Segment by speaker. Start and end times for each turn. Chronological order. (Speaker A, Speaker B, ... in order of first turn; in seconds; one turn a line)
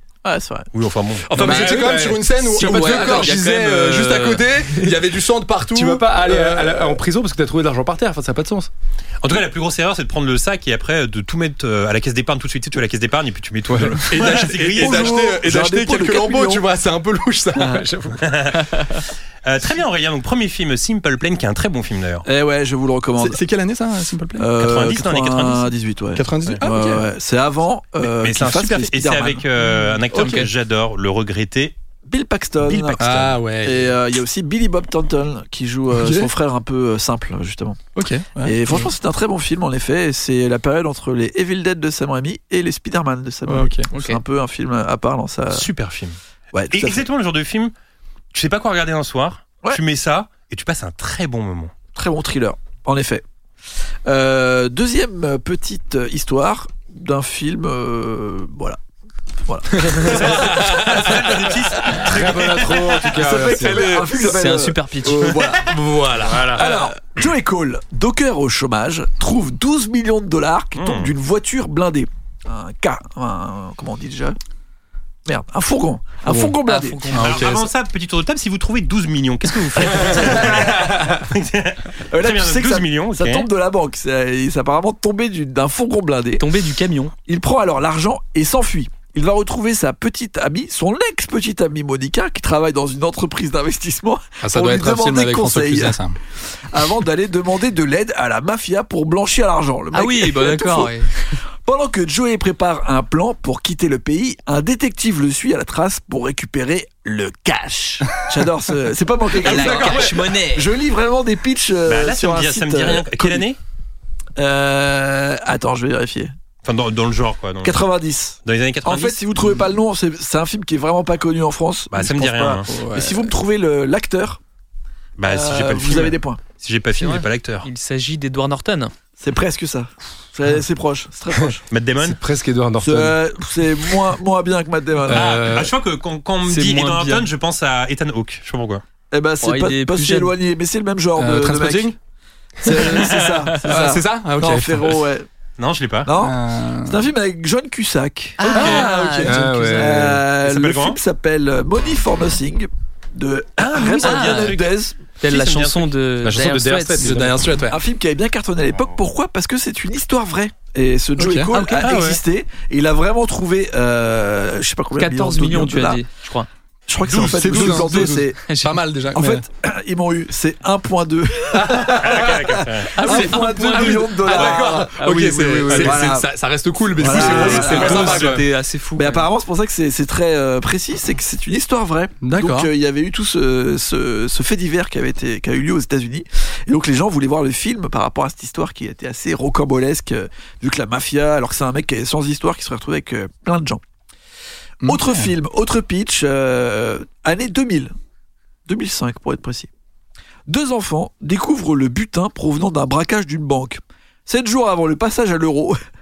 Speaker A: 0.2-0.7
Speaker B: 0.7-1.9
Speaker C: 1.3-7.0
Speaker D: 1.3-3.1
Speaker E: 1.5-4.5
Speaker A: 2.8-3.3
Speaker D: 5.7-8.7
Speaker B: 9.2-15.3
Speaker D: 13.7-14.0
Speaker C: 14.1-17.8
Speaker A: 14.8-16.6
Speaker D: 17.6-18.2
Speaker B: 18.2-18.8
Speaker B: 19.4-22.2
Speaker A: 22.2-23.4
Speaker C: 23.2-24.5
Speaker A: 24.4-29.4
Speaker B: 24.6-25.7
Speaker C: 26.1-27.1
Speaker B: 28.0-31.7
Speaker C: 30.1-30.4
Speaker A: 32.1-33.0
Speaker B: 32.6-33.4
Speaker C: 33.0-33.9
Speaker A: 33.6-37.8
Speaker C: 35.9-36.3
Speaker C: 37.9-38.6
Speaker A: 38.4-45.7
Speaker C: 43.5-43.9
Speaker E: 43.9-44.2
Speaker B: 45.5-46.2
Speaker A: 46.5-47.0
Speaker B: 46.7-47.7
Speaker B: 48.3-51.7
Speaker A: 51.9-53.2
Speaker A: 54.0-58.8
Speaker A: 59.5-61.1
Speaker C: 59.8-61.2
Speaker B: 60.0-63.0
Speaker D: 61.9-64.1
Speaker A: 63.0-65.8
Speaker C: 63.1-64.3
Speaker E: 64.1-65.3
Speaker C: 65.4-66.8
Speaker D: 66.2-66.6
Speaker B: 66.3-66.6
Speaker A: 66.4-74.3
Speaker B: 70.8-71.1
Speaker A: 75.2-77.1
Speaker E: 76.3-77.5
Speaker C: 77.1-77.7
Speaker B: 77.1-83.5
Speaker A: 80.3-80.7
Speaker A: 82.1-86.4
Speaker E: 86.4-87.1
Speaker A: 87.2-96.0
Speaker C: 94.4-96.2
Speaker A: 96.6-113.5
Speaker E: 99.9-101.3
Speaker E: 109.4-110.7
Speaker C: 109.4-110.2
Speaker B: 111.9-113.6
Speaker A: 114.4-116.3
Speaker B: 116.6-117.8
Speaker A: 117.6-124.4
Speaker B: 118.4-119.2
Speaker B: 121.9-122.7
Speaker C: 122.7-123.3
Speaker B: 125.2-127.7
Speaker A: 125.2-126.4
Speaker E: 127.0-128.9
Speaker A: 129.2-131.6
Speaker B: 131.7-132.2
Speaker D: 132.0-133.2
Speaker A: 132.8-135.2
Speaker C: 135.1-135.6
Speaker B: 135.1-138.8
Speaker D: 135.2-135.7
Speaker E: 136.4-137.3
Speaker A: 139.1-141.9
Speaker E: 139.4-140.3
Speaker C: 141.2-141.9
Speaker A: 142.6-145.3
Speaker C: 142.6-143.1
Speaker C: 143.6-145.0
Speaker B: 145.6-146.1
Speaker A: 146.0-155.0
Speaker C: 146.2-147.0
Speaker E: 148.4-150.1
Speaker C: 148.5-149.4
Speaker D: 149.2-150.1
Speaker B: 150.0-151.0
Speaker B: 153.6-154.7
Speaker E: 154.0-154.6
Speaker E: 155.2-157.2
Speaker B: 155.2-155.9
Speaker D: 156.2-157.5
Speaker C: 157.0-157.8
Speaker A: 157.7-166.0
Speaker C: 161.2-161.5
Speaker E: 161.5-162.2
Speaker E: 165.0-166.5
Speaker A: 166.9-168.4
Speaker B: 167.0-167.5
Speaker C: 167.1-169.4
Speaker E: 167.5-168.8
Speaker A: 169.1-172.3
Speaker C: 171.5-178.4
Speaker B: 171.9-172.9
Speaker E: 172.9-176.0
Speaker A: 173.0-174.9
Speaker D: 175.4-175.9
Speaker A: 175.7-176.3
Speaker A: 176.9-178.3
Speaker E: 177.0-179.3
Speaker B: 177.4-178.4
Speaker A: 178.9-193.8
Speaker C: 182.2-182.7
Speaker C: 194.8-195.3
Speaker A: 194.8-197.9
Speaker A: 198.7-199.7
Speaker A: 200.5-205.8